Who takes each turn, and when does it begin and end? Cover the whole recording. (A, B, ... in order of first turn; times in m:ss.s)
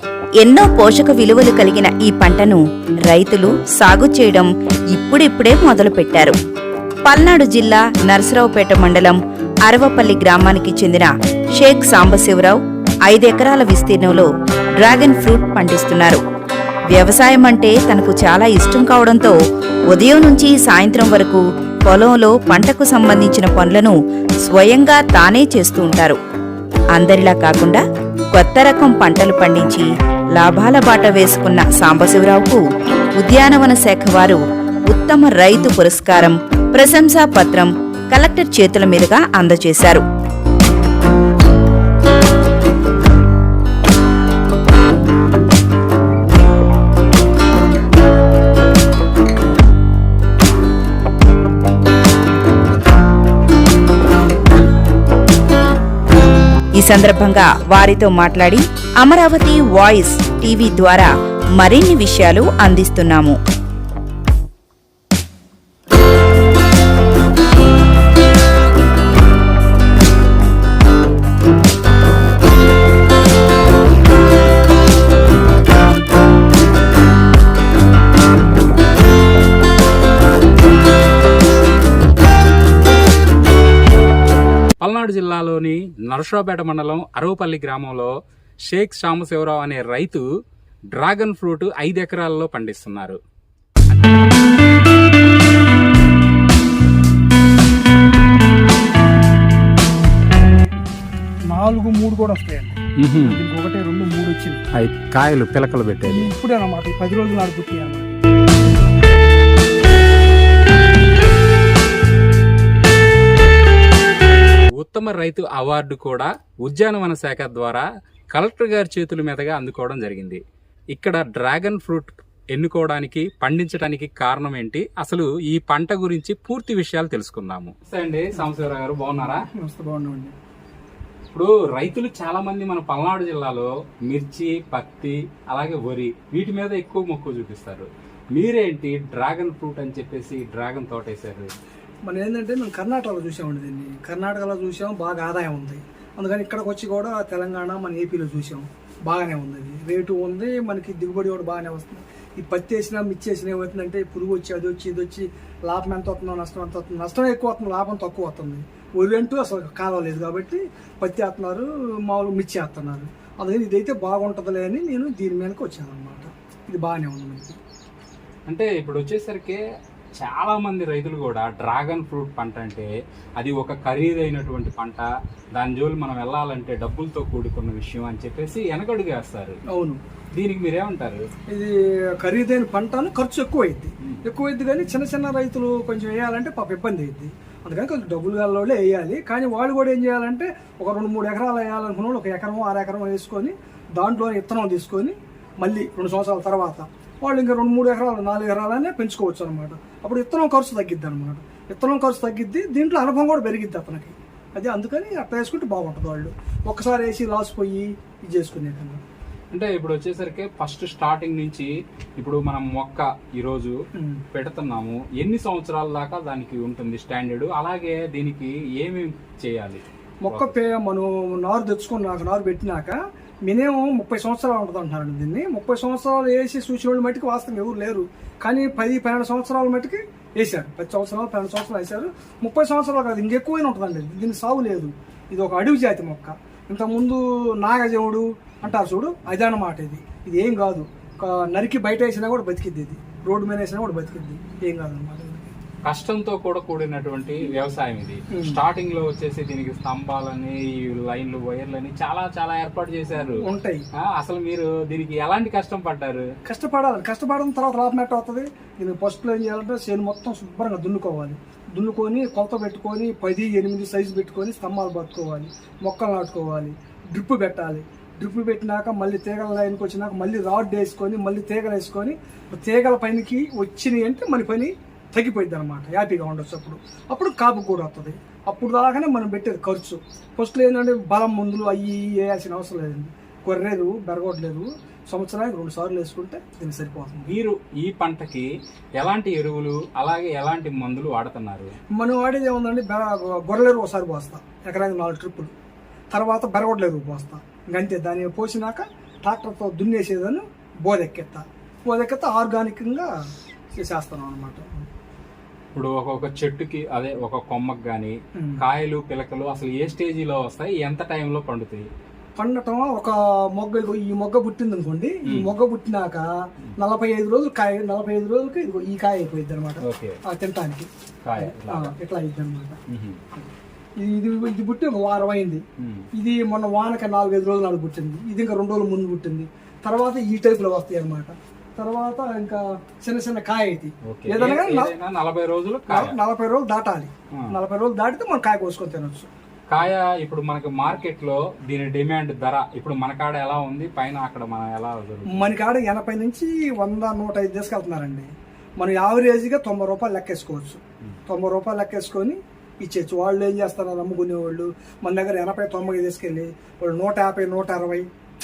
0:00.4-0:06.4 A
0:07.0-0:16.2 A
0:16.9-0:19.4 A
0:19.9-0:26.2 A
0:26.9-0:32.6 A
0:33.1-0:40.0 A
0:56.8-1:03.4 A
1:24.8-1:28.1 B
1:28.7-1:30.2 B
1:30.9-1:33.2 B
1:41.5-1:44.6 C
1:43.0-1:43.4 B
1:44.8-1:46.3 B
1:46.0-1:48.2 C
1:54.8-2:00.4 B
2:00.9-2:09.4 B
2:09.4-2:10.3 C
2:11.3-2:21.5 B
2:22.0-2:47.6 C
2:48.5-2:49.6 B
2:50.2-2:52.9 B
2:53.4-2:59.6 B
2:59.7-3:00.0 C
3:00.3-3:01.2 B
3:01.5-3:29.0 C
3:29.5-3:33.7 B
3:34.0-3:34.2 C
3:34.3-3:40.6 B
3:40.2-4:05.5 C
4:05.9-4:13.4 B
4:08.3-4:08.6 C
4:13.4-4:13.8 C
4:14.1-4:16.2 B
4:16.4-4:47.3 C
4:47.3-4:48.5 B
4:49.0-4:51.7 B
4:51.9-4:55.5 C
4:56.1-5:03.1 C
5:03.8-5:04.9 C
5:05.7-5:11.8 B
5:08.4-5:08.6 C
5:12.4-5:16.2 C
5:15.3-5:15.5 B
5:16.8-5:22.8 C
5:19.8-5:20.2 B
5:21.2-5:21.9 B
5:22.9-5:23.2 B
5:23.3-5:25.6 C
5:25.8-5:26.0 B
5:26.1-5:34.9 C
5:34.1-5:36.1 B
5:35.9-5:39.3 C
5:39.7-5:45.6 B
5:45.3-5:58.0 C